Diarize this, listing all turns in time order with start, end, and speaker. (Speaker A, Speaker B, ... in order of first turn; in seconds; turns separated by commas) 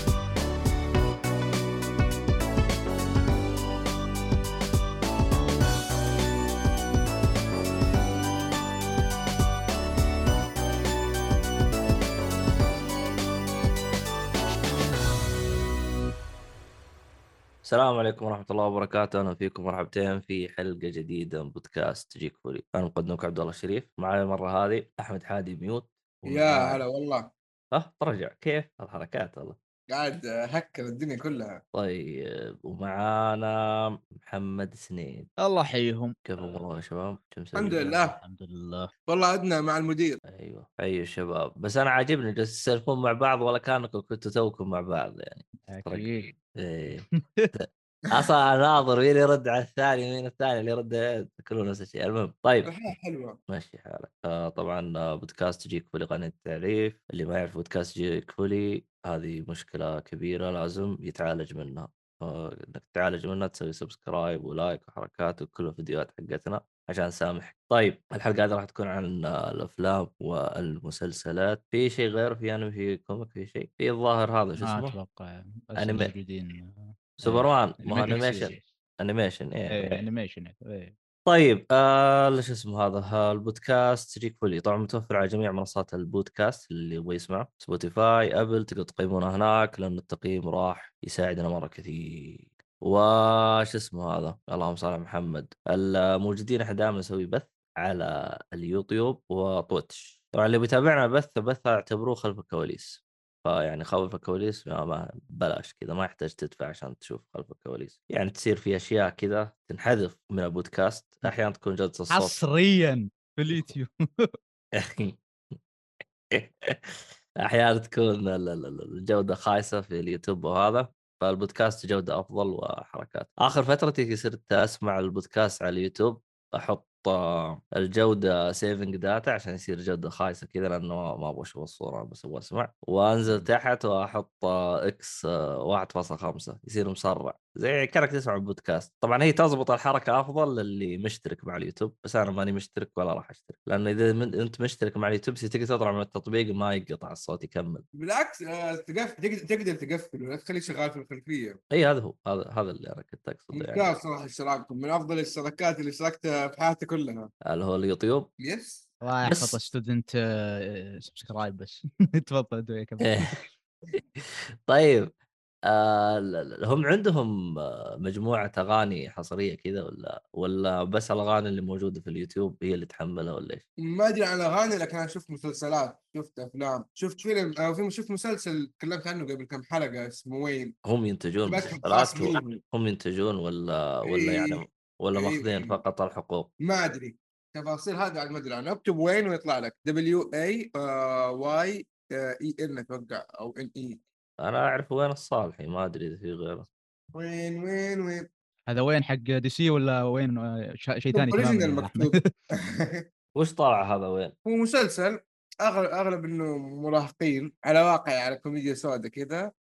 Speaker A: 17.6-26.8, Speaker B: 26.3-27.3, Speaker A: 27.7-29.6, Speaker B: 29.9-31.6, Speaker A: 31.7-35.3, Speaker C: 35.4-36.1, Speaker A: 36.2-38.0, Speaker B: 37.5-38.2, Speaker C: 37.9-38.9, Speaker B: 39.1-40.2, Speaker A: 40.2-52.7, Speaker C: 45.6-46.3, Speaker B: 52.6-53.4, Speaker A: 53.5-75.0, Speaker C: 74.6-78.7, Speaker A: 75.8-76.1, Speaker A: 77.2-80.0, Speaker C: 79.7-80.9, Speaker A: 81.3-112.4, Speaker C: 112.1-114.3, Speaker A: 114.8-115.2, Speaker A: 116.3-147.8, Speaker B: 148.0-151.6, Speaker A: 151.7-153.9, Speaker B: 153.5-157.3, Speaker A: 157.5-158.3, Speaker B: 158.4-158.9, Speaker C: 159.0-163.5, Speaker A: 159.2-159.6, Speaker A: 164.0-165.1, Speaker A: 165.7-173.6, Speaker B: 173.8-180.7, Speaker A: 180.8-186.5, Speaker B: 181.5-182.6, Speaker B: 184.1-184.6, Speaker B: 185.1-185.8, Speaker B: 186.6-194.0, Speaker A: 194.4-196.7, Speaker B: 197.1-198.3, Speaker C: 198.7-202.3, Speaker B: 201.1-203.0, Speaker A: 203.3-204.3, Speaker B: 204.4-209.4